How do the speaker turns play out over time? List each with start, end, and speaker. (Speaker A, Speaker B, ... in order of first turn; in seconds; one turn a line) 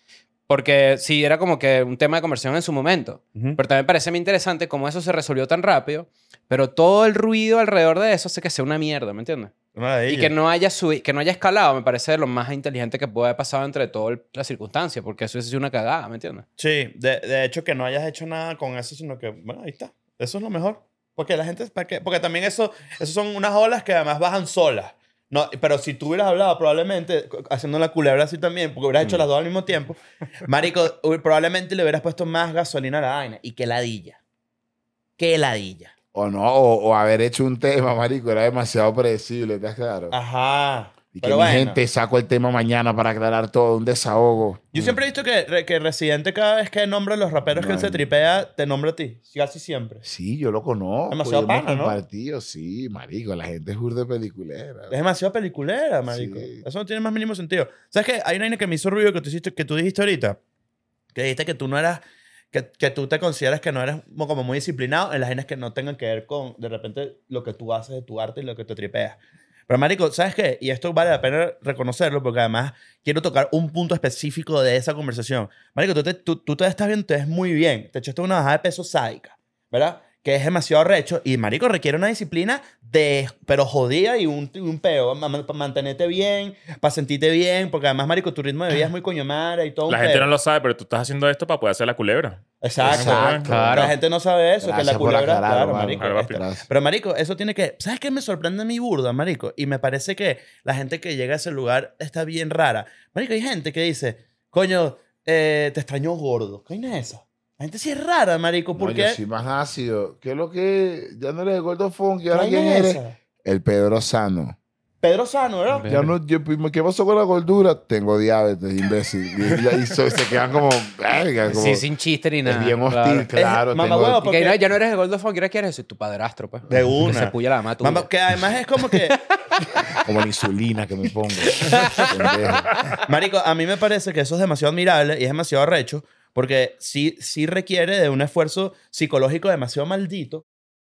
Speaker A: 0.5-9.5
Speaker B: 3.3-3.6
Speaker B: 9.8-10.3
Speaker A: 10.1-16.4
Speaker B: 16.6-34.2
Speaker B: 35.2-35.9
Speaker C: 36.1-40.1
Speaker B: 40.1-41.8
Speaker C: 41.1-45.0
Speaker B: 44.7-50.0
Speaker C: 47.5-48.1
Speaker C: 50.0-55.0
Speaker B: 51.1-52.0
Speaker B: 54.9-60.4
Speaker C: 56.1-56.6
Speaker B: 61.1-90.3
Speaker D: 89.9-93.5
Speaker B: 92.6-109.2
Speaker C: 92.8-94.0
Speaker A: 93.5-94.0
Speaker C: 94.6-96.6
Speaker D: 96.0-96.4
Speaker C: 108.7-114.6
Speaker B: 112.3-113.2
Speaker B: 115.0-115.9
Speaker A: 115.7-116.1
Speaker C: 115.9-121.8
Speaker A: 121.5-123.6
Speaker C: 122.4-124.3
Speaker B: 123.7-124.6
Speaker A: 124.2-128.1
Speaker B: 126.7-129.2
Speaker C: 129.9-132.8
Speaker A: 131.5-132.6
Speaker B: 133.0-140.4